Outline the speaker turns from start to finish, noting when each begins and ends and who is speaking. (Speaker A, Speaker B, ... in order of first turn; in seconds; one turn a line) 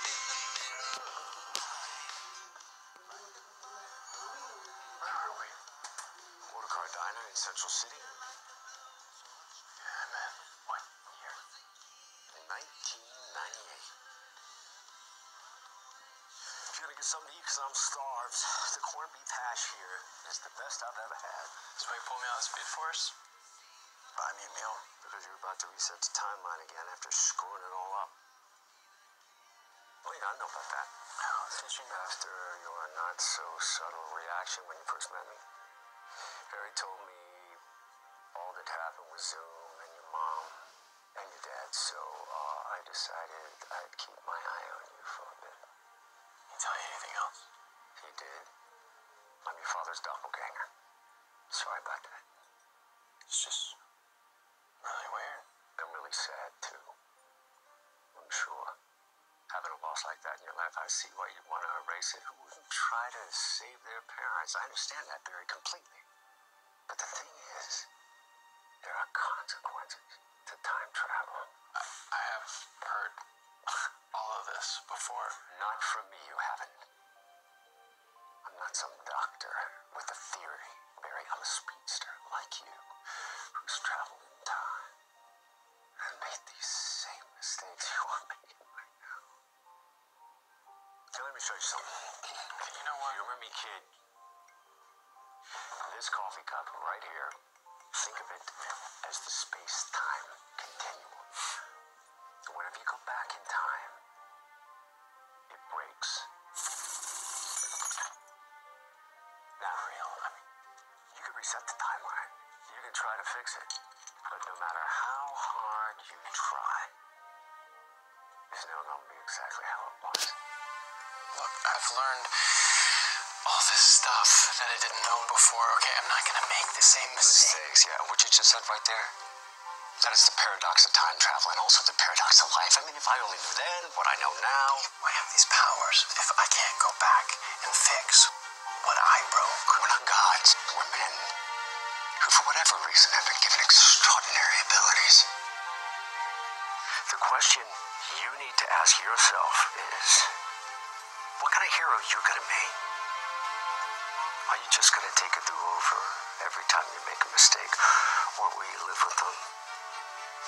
Speaker A: 5.0-5.6
Speaker B: 6.5-8.2
Speaker A: 9.8-11.4
Speaker B: 12.3-13.9
Speaker B: 16.7-21.6
Speaker A: 21.8-23.1
Speaker A: 24.2-24.8
Speaker B: 24.8-28.2
Speaker B: 30.0-30.9
Speaker A: 31.2-32.0
Speaker B: 31.7-35.4
Speaker B: 36.5-37.6
Speaker B: 38.3-45.7
Speaker A: 46.5-47.5
Speaker B: 48.0-48.5
Speaker B: 49.5-50.7
Speaker B: 51.5-52.2
Speaker A: 53.3-53.8
Speaker A: 54.8-55.5
Speaker B: 55.8-56.9
Speaker B: 58.1-58.8
Speaker B: 59.5-66.0
Speaker B: 66.9-67.9
Speaker B: 68.8-71.5
Speaker A: 71.8-73.2
Speaker A: 73.8-75.4
Speaker B: 75.5-76.8
Speaker B: 78.4-82.9
Speaker B: 83.5-84.9
Speaker B: 86.0-89.1
Speaker B: 91.1-92.1
Speaker A: 92.5-93.3
Speaker B: 93.0-93.9
Speaker B: 95.8-97.3
Speaker B: 97.9-101.3
Speaker B: 102.5-104.0
Speaker B: 105.5-106.3
Speaker B: 109.6-109.9
Speaker A: 109.7-110.4
Speaker B: 111.1-113.7
Speaker B: 114.2-116.9
Speaker B: 118.5-120.4
Speaker A: 121.3-127.6
Speaker B: 127.2-129.1
Speaker B: 130.0-134.9
Speaker A: 134.9-139.8
Speaker B: 139.7-141.3
Speaker B: 142.2-145.3
Speaker B: 147.1-150.3
Speaker B: 151.4-152.8
Speaker B: 154.5-159.5